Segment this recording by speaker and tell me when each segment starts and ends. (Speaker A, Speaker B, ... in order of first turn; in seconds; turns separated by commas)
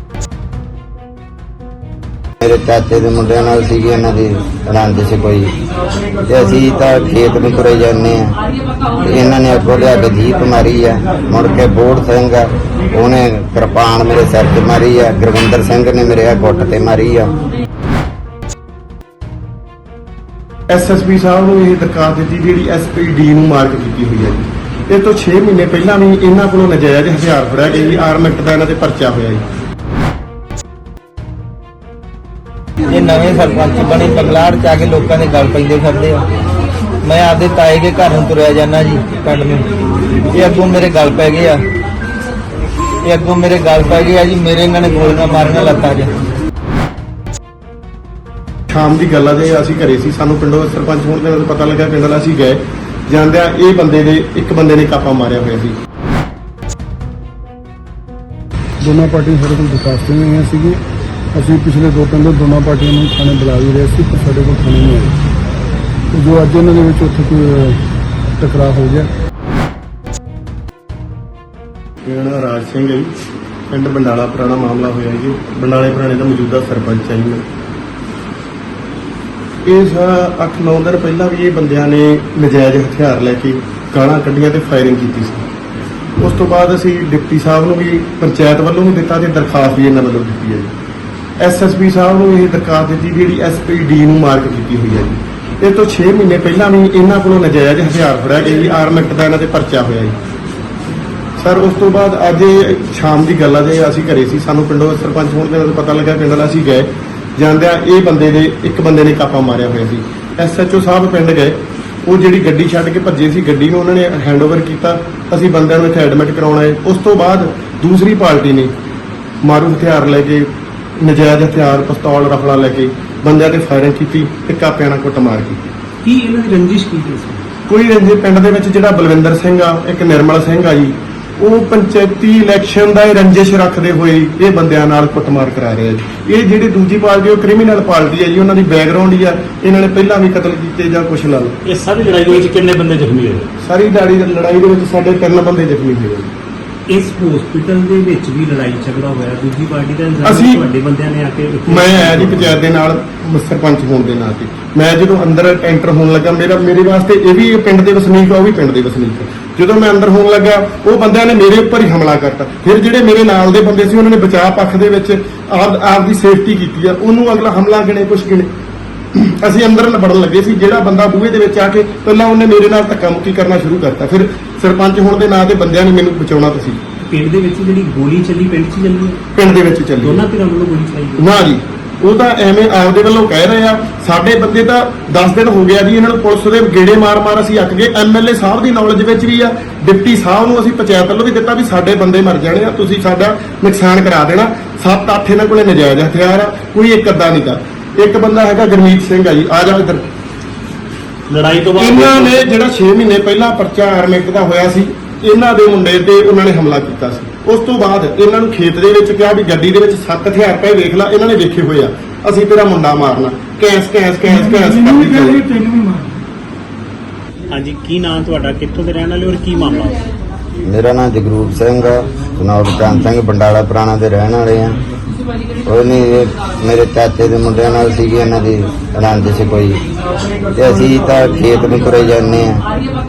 Speaker A: 2.4-5.5, Speaker A: 6.3-8.3, Speaker A: 9.0-17.3, Speaker B: 20.7-29.4, Speaker C: 32.9-36.2, Speaker C: 37.0-39.6, Speaker C: 40.3-41.6, Speaker C: 43.0-46.1, Speaker B: 48.7-55.8, Speaker D: 58.8-60.8, Speaker D: 61.3-65.2, Speaker D: 66.1-67.8, Speaker D: 68.4-69.1, Speaker B: 72.0-73.1, Speaker B: 73.7-77.4, Speaker B: 79.7-85.5, Speaker B: 86.2-90.7, Speaker B: 91.4-100.2, Speaker B: 101.4-118.7, Speaker B: 119.4-125.6, Speaker E: 126.0-127.4, Speaker B: 127.7-141.6, Speaker E: 141.6-143.5, Speaker B: 143.6-146.3, Speaker E: 146.9-152.6, Speaker B: 150.2-150.6, Speaker B: 151.7-168.5, Speaker B: 169.1-176.8, Speaker E: 177.1-179.2, Speaker B: 179.3-180.2, Speaker E: 180.0-181.2, Speaker B: 181.2-200.0, Speaker E: 201.3-202.3, Speaker B: 201.7-215.5, Speaker E: 217.5-220.0, Speaker A: 220.6-224.8, Speaker A: 225.7-229.8, Speaker A: 230.5-232.6